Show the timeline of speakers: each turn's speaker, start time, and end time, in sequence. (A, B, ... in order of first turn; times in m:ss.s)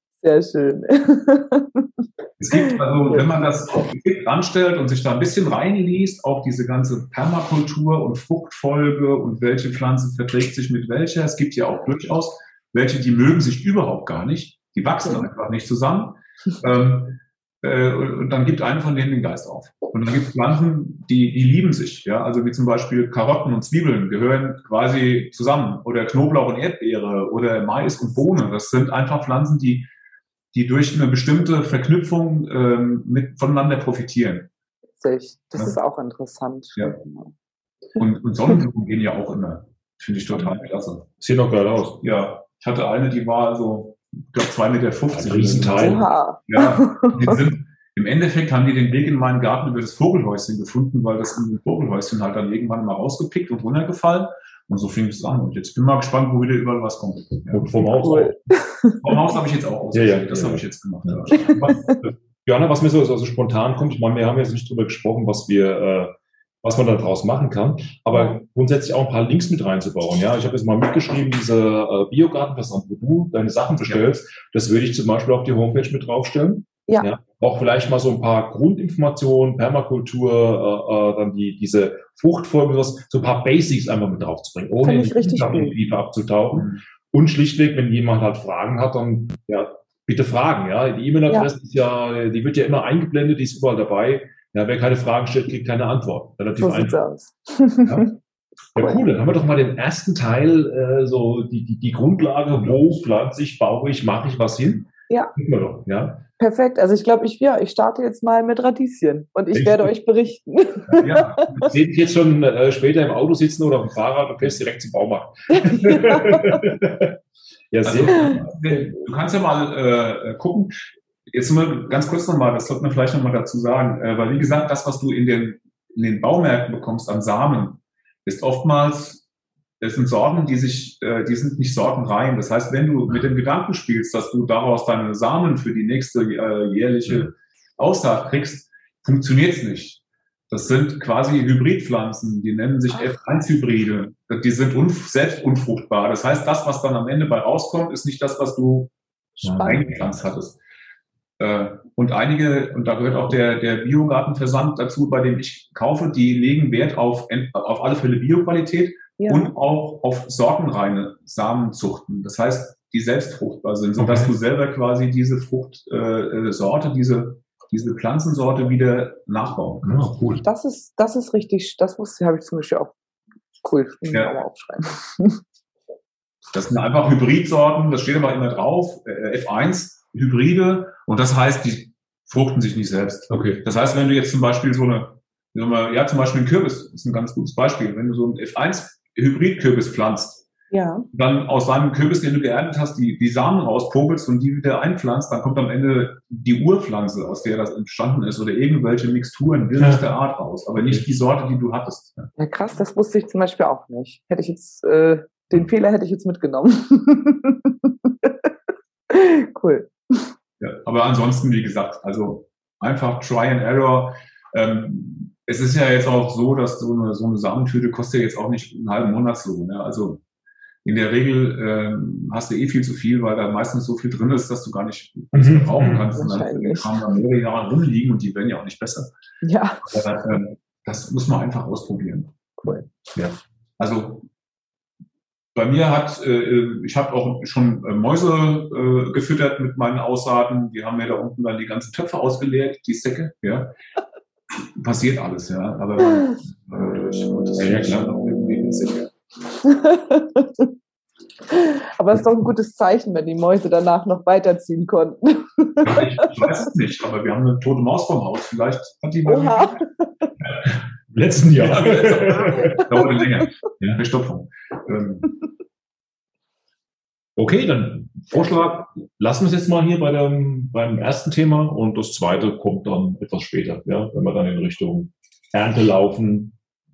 0:00.2-0:01.9 A
0:02.4-0:29.9 B
0:02.6-0:03.4 A
0:30.5-0:34.5 B
0:35.0-0:37.3 A
0:38.0-0:41.1 B
0:41.2-0:42.0 C
0:42.0-0:57.7 B
0:45.1-0:46.0 C
0:45.8-0:47.4 A
0:57.5-0:58.4 C
0:57.8-0:59.0 A
0:59.0-1:01.6 B
0:59.9-1:37.0 C
1:01.3-1:02.0 A
1:08.1-1:08.4 A
1:13.7-1:14.0 B
1:24.8-1:25.7 A
1:26.5-1:26.8 B
1:36.6-1:38.1 A
1:38.8-1:46.2 C
1:38.8-1:39.0 A
1:46.4-1:51.7 A
1:49.5-1:49.9 C
1:51.0-1:51.7 B
1:51.6-1:57.2 C
1:55.5-1:56.6 A
1:57.7-1:58.4 C
1:57.8-2:00.8 B
1:58.2-1:58.9 A
2:01.3-2:09.2 B
2:09.8-2:28.9 B
2:29.4-2:30.0 A
2:29.5-2:30.6 B
2:31.4-2:49.9 B
2:39.2-2:39.5 A
2:44.0-2:44.3 C
2:49.8-2:50.4 C
2:50.4-2:52.9 A
2:53.6-2:55.4 A
2:56.5-3:10.5 B
3:03.3-3:03.6 C
3:10.7-3:11.1 A
3:11.1-3:22.3 B
3:22.4-3:28.5 A
3:29.1-3:30.3 A
3:30.6-3:40.2 B
3:40.8-3:49.1 B
3:45.3-3:46.1 C
3:46.1-3:47.0 A
3:49.4-3:50.0 A
3:49.8-3:52.3 B
3:52.6-3:52.9 A
3:53.8-3:54.3 B
3:55.6-4:03.7 B
4:04.8-4:09.1 B
4:07.6-4:08.0 C
4:09.6-4:10.7 A
4:11.5-4:16.5 A
4:15.8-4:19.8 B
4:19.3-4:20.3 A
4:20.6-4:22.8 C
4:21.5-4:25.3 B
4:22.5-4:22.9 A
4:27.4-4:36.6 C
4:28.3-4:28.7 A